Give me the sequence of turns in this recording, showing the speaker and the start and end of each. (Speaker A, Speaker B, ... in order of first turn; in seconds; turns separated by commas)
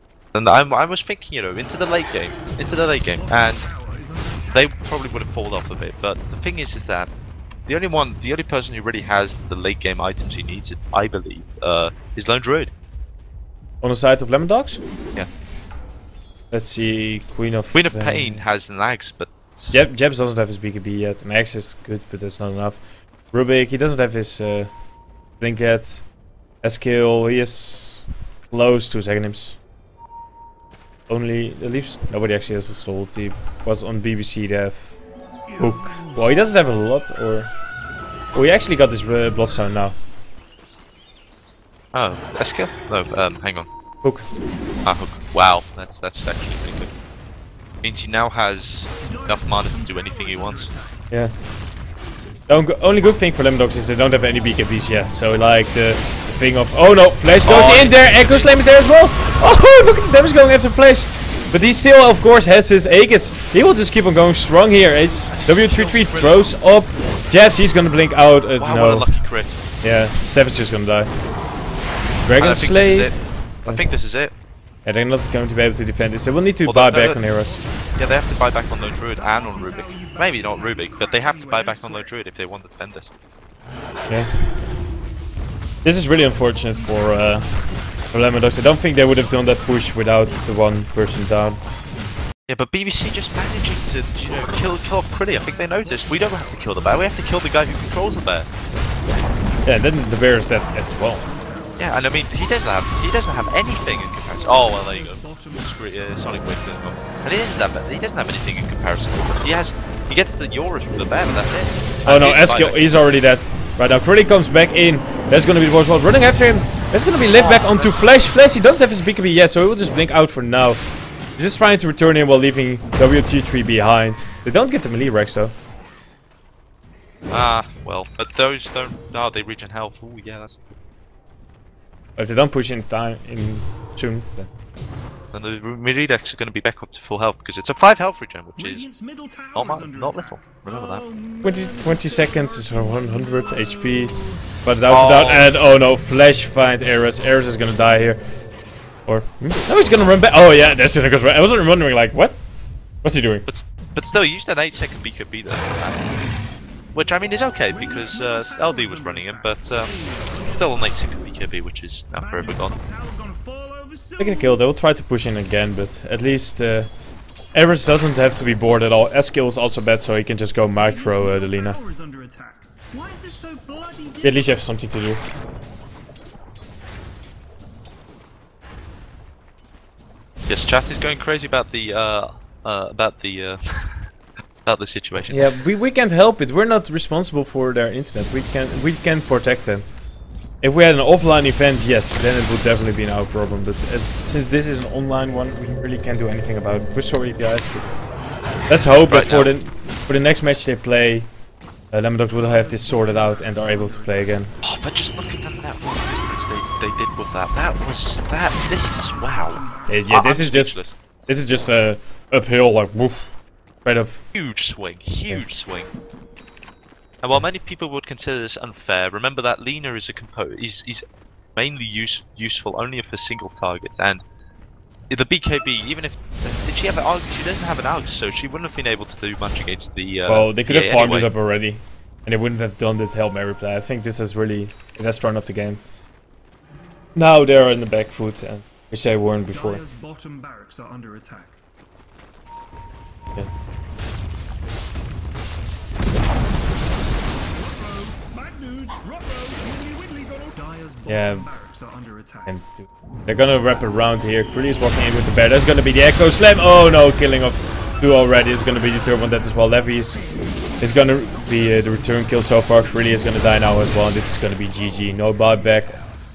Speaker A: 0.3-3.7, Speaker B: 3.2-4.8, Speaker A: 4.5-7.1, Speaker A: 7.7-12.7, Speaker C: 13.8-14.8, Speaker C: 16.5-18.4, Speaker A: 17.7-19.8, Speaker C: 19.7-22.8, Speaker C: 23.3-24.7, Speaker C: 25.4-26.1, Speaker C: 26.6-29.6, Speaker C: 31.1-35.0, Speaker C: 35.5-37.5, Speaker C: 38.3-40.0, Speaker A: 41.9-43.7, Speaker A: 44.8-46.9, Speaker A: 47.8-50.7, Speaker B: 49.0-51.1, Speaker C: 52.5-69.1, Speaker A: 57.4-58.5, Speaker A: 65.3-66.5, Speaker A: 68.6-69.6, Speaker C: 69.8-71.1, Speaker C: 72.2-73.8, Speaker A: 72.4-74.3, Speaker C: 74.8-77.6, Speaker A: 76.7-77.2, Speaker B: 77.3-82.1, Speaker A: 78.0-83.1, Speaker C: 84.1-84.5, Speaker C: 85.8-91.6, Speaker B: 86.4-87.8, Speaker A: 92.5-98.5, Speaker B: 95.3-97.1, Speaker C: 99.6-101.2, Speaker B: 100.5-102.1, Speaker A: 101.8-112.9, Speaker B: 103.0-106.5, Speaker C: 112.0-125.5, Speaker A: 117.3-118.0, Speaker A: 127.3-130.7, Speaker C: 132.2-134.5, Speaker A: 135.3-138.9, Speaker B: 138.6-144.4, Speaker A: 139.5-141.1, Speaker C: 141.4-148.2, Speaker A: 144.9-145.5, Speaker C: 149.1-152.4, Speaker A: 149.7-150.1, Speaker C: 153.0-153.5, Speaker A: 153.5-156.1, Speaker A: 156.9-162.8, Speaker B: 157.7-161.1, Speaker B: 162.2-164.6, Speaker C: 164.2-166.9, Speaker C: 167.5-171.8, Speaker B: 170.8-174.6, Speaker C: 174.2-175.2, Speaker A: 180.5-184.1, Speaker A: 184.7-185.5, Speaker C: 185.3-189.9, Speaker C: 190.6-197.9, Speaker C: 198.7-201.3, Speaker A: 199.1-199.5, Speaker C: 201.9-204.6, Speaker B: 202.4-204.4, Speaker A: 204.6-210.9, Speaker B: 209.0-210.2, Speaker C: 209.9-213.3, Speaker C: 213.8-214.2, Speaker A: 214.3-215.9, Speaker A: 217.2-221.0, Speaker A: 221.6-224.2, Speaker A: 225.1-231.3, Speaker C: 230.3-235.8, Speaker C: 237.2-239.8, Speaker B: 239.5-241.6, Speaker B: 247.4-252.6, Speaker C: 251.1-251.5, Speaker C: 252.5-260.2, Speaker B: 258.3-261.5, Speaker C: 260.8-266.0